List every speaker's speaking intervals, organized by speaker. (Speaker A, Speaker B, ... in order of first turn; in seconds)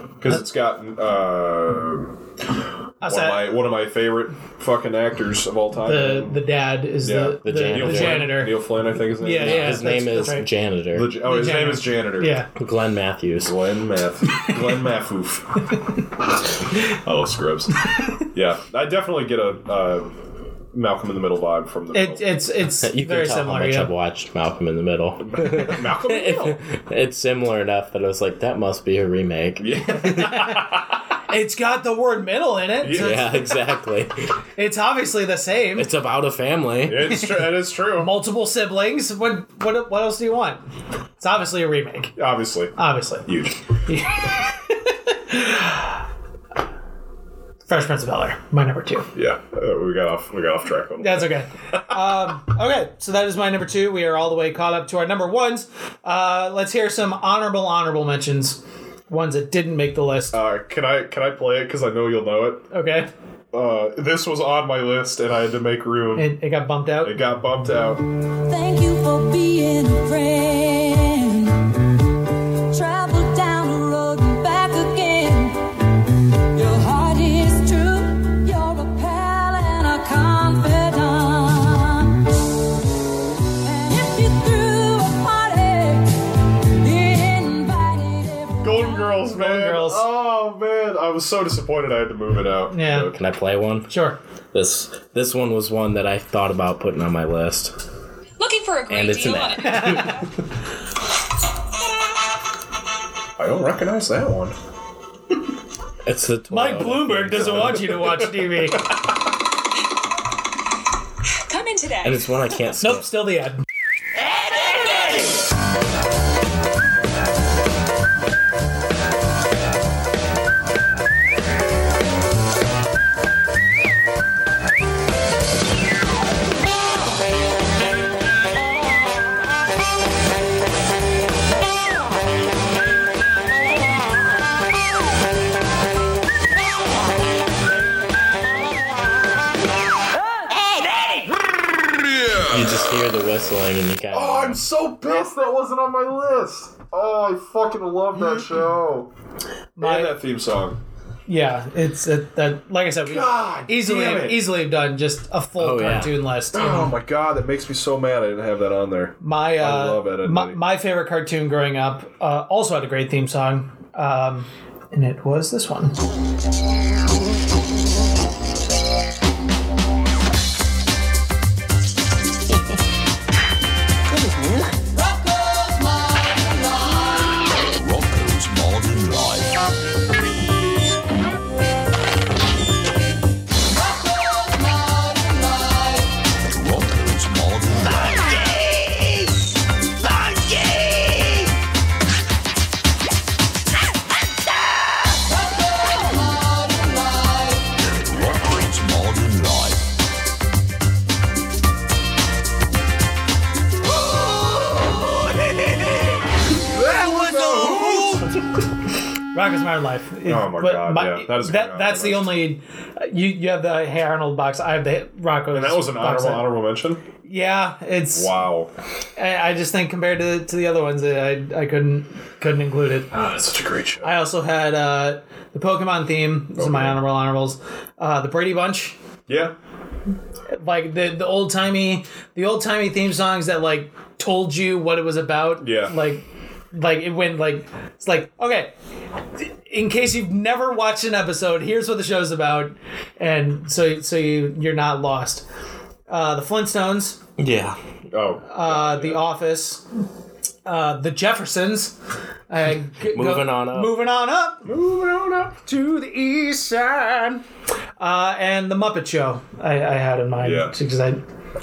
Speaker A: 0.2-2.1, 3.0-6.4, 7.0-10.1, 10.9-12.5, 13.4-15.7, 16.8-20.1, 20.7-22.4, 25.2-26.6, 29.6-30.8, 32.8-33.4, 36.9-38.1, 42.2-42.7, 43.3-43.6, 49.1-51.3, 60.3-62.7, 63.5-66.3, 67.0-68.0, 88.6-93.1, 103.4-104.6, 107.4-108.1, 144.1-149.1, 149.8-150.8, 153.0-154.5, 156.5-160.6, 206.6-208.3, 210.2-212.4, 215.5-217.0, 218.1-218.7, 223.1-224.1, 226.6-227.0, 229.3-229.6, 235.6-236.0, 248.1-249.2, 254.7-255.6, 260.4-260.7
Speaker B: 3.0-3.5, 5.9-10.5, 11.2-12.5, 21.9-23.9, 30.2-30.7, 31.3-33.3, 34.6-35.9, 38.0-40.6, 41.2-42.1, 42.8-43.2, 43.9-44.4, 44.9-46.0, 47.7-49.1, 51.0-60.4, 62.7-63.1, 66.2-67.2, 89.3-90.0, 92.7-93.1, 93.9-94.2, 106.5-108.9, 112.8-113.6, 149.8-150.1, 151.3-156.9, 159.2-166.0, 209.3-216.5, 217.2-218.3, 219.2-223.1, 224.0-229.0, 230.5-238.7, 239.7-245.4, 246.1-247.2, 248.5-249.8, 250.7-251.9, 252.5-254.7, 255.6-257.4, 258.0-261.2
Speaker C: 7.4-8.5, 9.2-11.2, 12.6-13.5, 22.8-30.5, 32.9-34.2, 35.8-37.2, 92.9-93.9, 94.5-97.8, 98.9-100.3, 106.0-108.0, 112.0-113.1, 142.4-144.6, 155.6-156.2, 247.4-247.8, 253.1-254.0
Speaker D: 68.5-71.6, 72.7-75.7, 76.5-82.1, 83.6-86.2, 86.8-89.2, 175.0-177.1, 184.0-186.0, 196.4-197.3
Speaker E: 98.4-100.1, 111.5-112.0
Speaker F: 177.7-179.5, 186.5-188.2, 198.1-199.8